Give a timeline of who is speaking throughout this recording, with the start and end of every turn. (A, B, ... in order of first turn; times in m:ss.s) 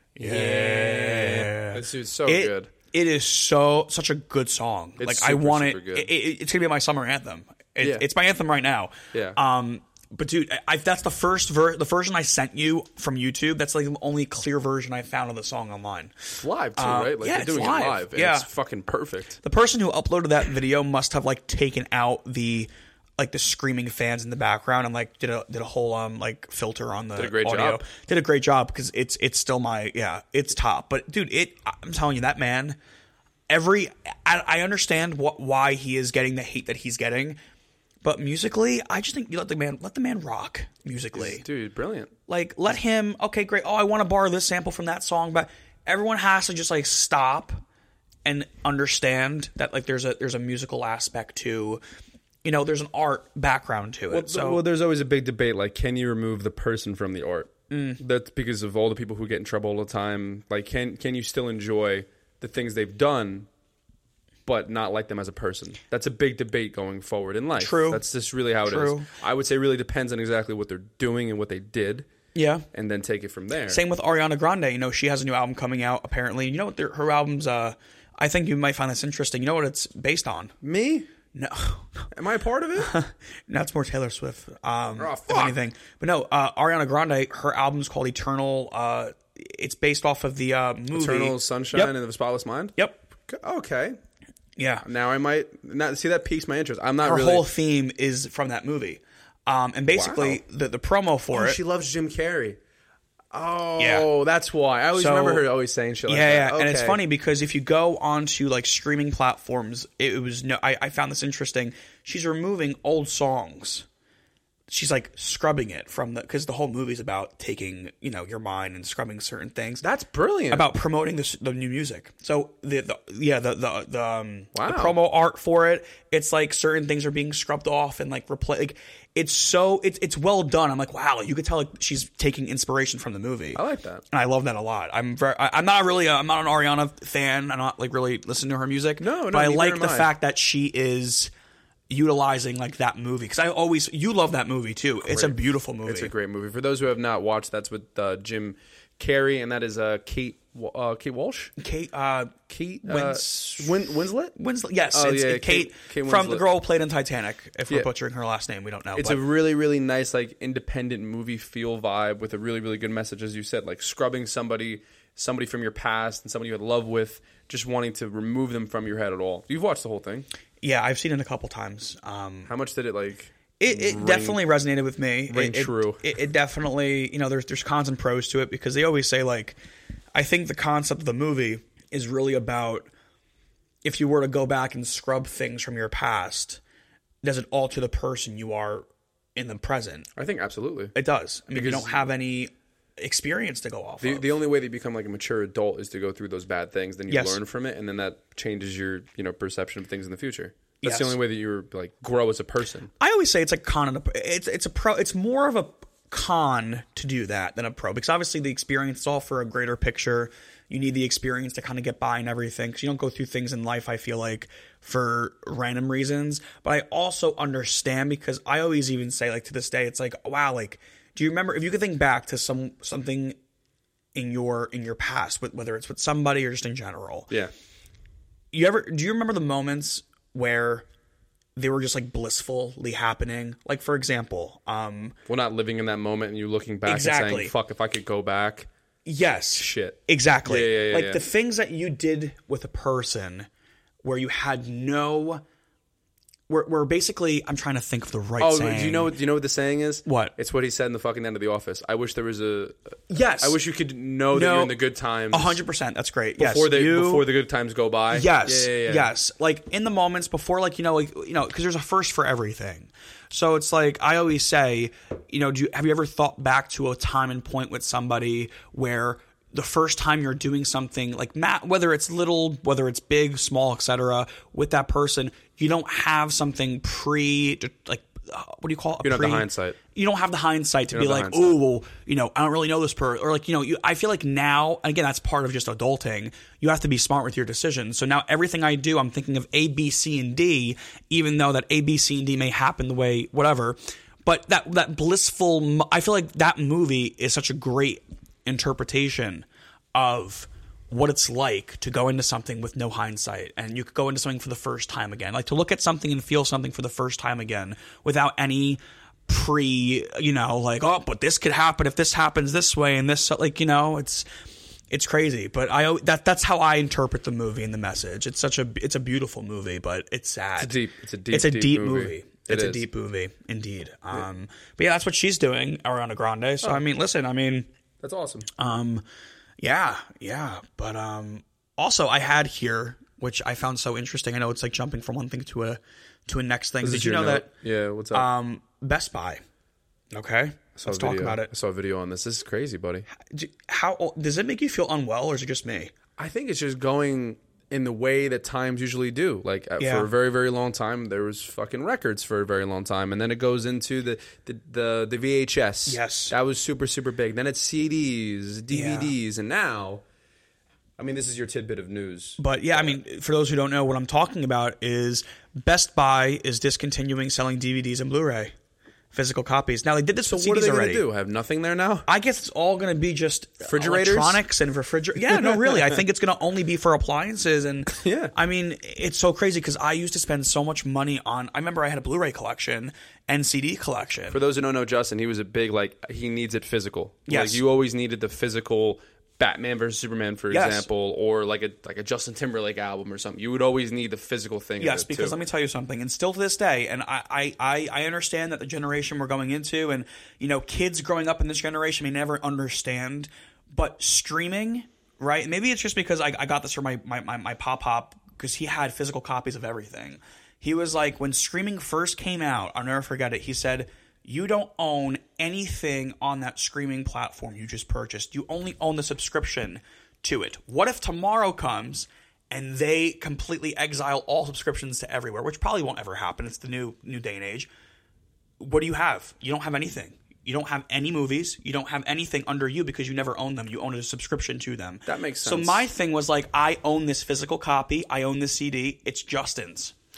0:00.2-0:02.7 A
0:00.2-0:18.5 B
0:05.0-0:06.1 A
0:07.8-0:08.0 A
0:09.1-0:09.4 A
0:16.4-0:19.4 A
0:19.4-0:32.8 B
0:27.2-0:27.8 A
0:33.5-0:37.4 B
0:38.0-0:41.4 B
0:41.1-0:42.1 A
0:42.3-0:47.6 B
0:48.2-0:51.8 B
0:52.4-0:54.6 B
0:54.1-1:03.5 A
0:57.7-0:58.0 B
1:04.4-1:12.1 A
1:07.6-1:08.0 B
1:08.6-1:09.1 B
1:12.3-1:12.7 B
1:12.7-1:13.8 A
1:13.7-1:20.5 B
1:20.6-1:21.1 A
1:21.3-1:22.1 B
1:22.1-1:22.9 A
1:22.8-1:31.9 B
1:25.0-1:25.6 A
1:30.9-1:32.7 A
1:32.8-1:33.0 B
1:33.3-1:34.0 A
1:34.6-1:34.8 B
1:34.8-1:37.5 A
1:37.0-1:41.6 B
1:39.9-1:40.4 A
1:41.3-1:42.6 A
1:43.3-1:47.0 A
1:43.8-1:44.1 B
1:44.9-1:45.4 B
1:46.1-1:53.8 B
1:54.7-1:59.8 B
1:59.8-2:00.7 A
2:00.5-2:21.3 B
2:04.5-2:05.0 A
2:13.5-2:14.0 A
2:19.0-2:20.1 A
2:21.9-2:26.1 B
2:25.0-2:31.5 A
2:31.6-2:39.2 B
2:32.5-2:34.4 A
2:34.9-2:36.4 A
2:38.9-2:50.3 A
2:50.6-2:52.5 B
2:52.4-2:54.4 A
2:53.6-2:59.6 B
2:55.3-2:56.0 A
3:00.1-3:02.9 B
3:03.8-3:06.6 B
3:07.2-3:10.1 B
3:10.2-3:10.9 A
3:10.9-3:14.3 B
3:11.5-3:12.0 A
3:14.0-3:22.9 A
3:17.1-3:17.4 B
3:20.8-3:21.2 B
3:23.0-3:43.4 B
3:44.1-3:47.3 B
3:48.5-3:50.9 B
3:51.6-3:55.1 B
3:55.3-3:58.7 A
3:56.8-3:57.5 B
3:59.0-4:03.5 B
3:59.6-4:01.2 A
4:04.0-4:05.4 B
4:06.5-4:09.1 B
4:08.4-4:15.6 A
4:10.0-4:10.3 B
4:13.1-4:13.6 B
4:14.3-4:14.8 B
4:15.3-4:17.3 B
4:16.4-4:19.1 A
4:18.1-5:14.2 B
4:39.0-4:39.8 A
4:40.9-4:41.6 A
5:14.9-5:20.8 B
5:20.6-5:22.8 A
5:21.3-5:27.7 B
5:28.0-5:28.5 A
5:28.6-5:29.0 B
5:29.6-5:37.5 B
5:36.8-5:38.3 A
5:38.1-5:39.4 B
5:40.1-5:41.5 B
5:40.8-5:43.0 A
5:43.1-5:45.9 B
5:46.2-6:00.0 A
5:49.8-5:50.1 B
5:55.9-5:56.3 B
5:58.7-5:59.1 B
6:01.0-6:03.0 A
6:02.4-6:08.5 B
6:09.1-6:11.0 B
6:10.2-6:12.0 A
6:12.1-6:24.4 B
6:13.6-6:14.4 A
6:15.3-6:16.0 A
6:17.9-6:18.3 A
6:24.3-6:35.4 A
6:27.3-6:27.6 B
6:30.5-6:30.9 B
6:34.8-7:07.7 B
7:08.6-7:19.9 B
7:15.0-7:15.9 A